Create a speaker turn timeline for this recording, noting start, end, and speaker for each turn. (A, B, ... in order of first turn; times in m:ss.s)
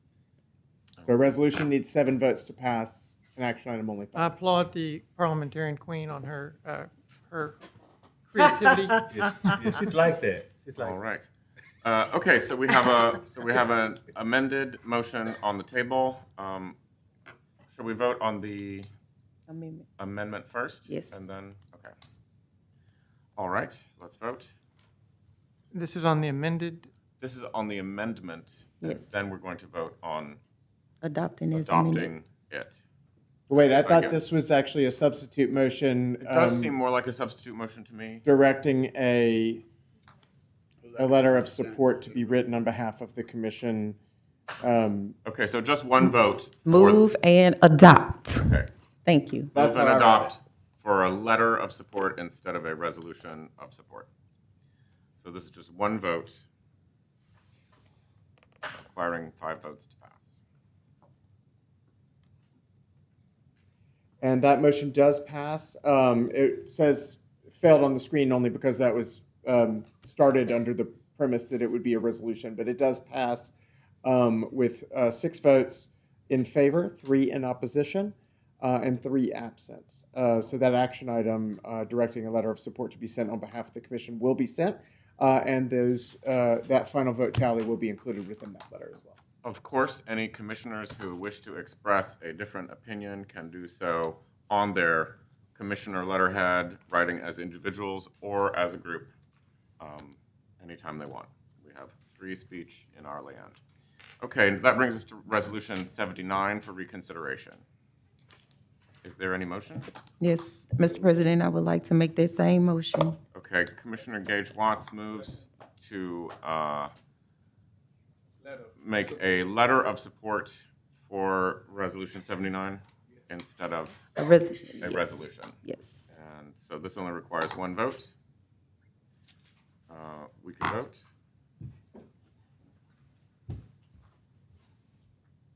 0:01.0-0:04.4 A
0:04.2-0:07.6 B
0:08.3-0:09.5 B
0:08.9-0:11.0 C
0:10.8-0:11.3 D
0:11.8-0:16.8 D
0:17.7-0:18.9 D
0:19.5-0:19.9 E
0:20.0-0:21.9 D
0:20.9-0:21.2 E
0:23.4-0:24.5 D
0:25.7-0:26.9 B
0:27.2-0:30.4 D
0:28.8-0:29.1 E
0:31.0-0:32.1 E
0:31.5-0:32.8 D
0:33.5-0:36.8 A
0:33.8-0:34.2 D
0:36.2-0:38.2 D
0:38.2-0:39.6 A
0:41.0-0:44.0 A
0:44.6-0:45.2 A
0:45.2-0:47.0 D
0:46.7-0:49.5 E
0:48.4-0:48.7 D
0:49.5-0:50.4 A
0:49.5-0:54.1 D
0:55.2-0:56.4 D
0:58.7-1:00.4 D
1:04.2-1:29.2 A
1:29.4-1:39.1 D
1:39.8-1:43.6 D
1:44.2-1:47.6 D
1:49.0-1:49.9 D
1:50.2-1:53.2 E
1:53.3-1:56.9 D
1:58.8-2:04.0 D
2:04.2-2:06.1 E
2:04.8-2:08.1 D
2:09.9-2:11.0 D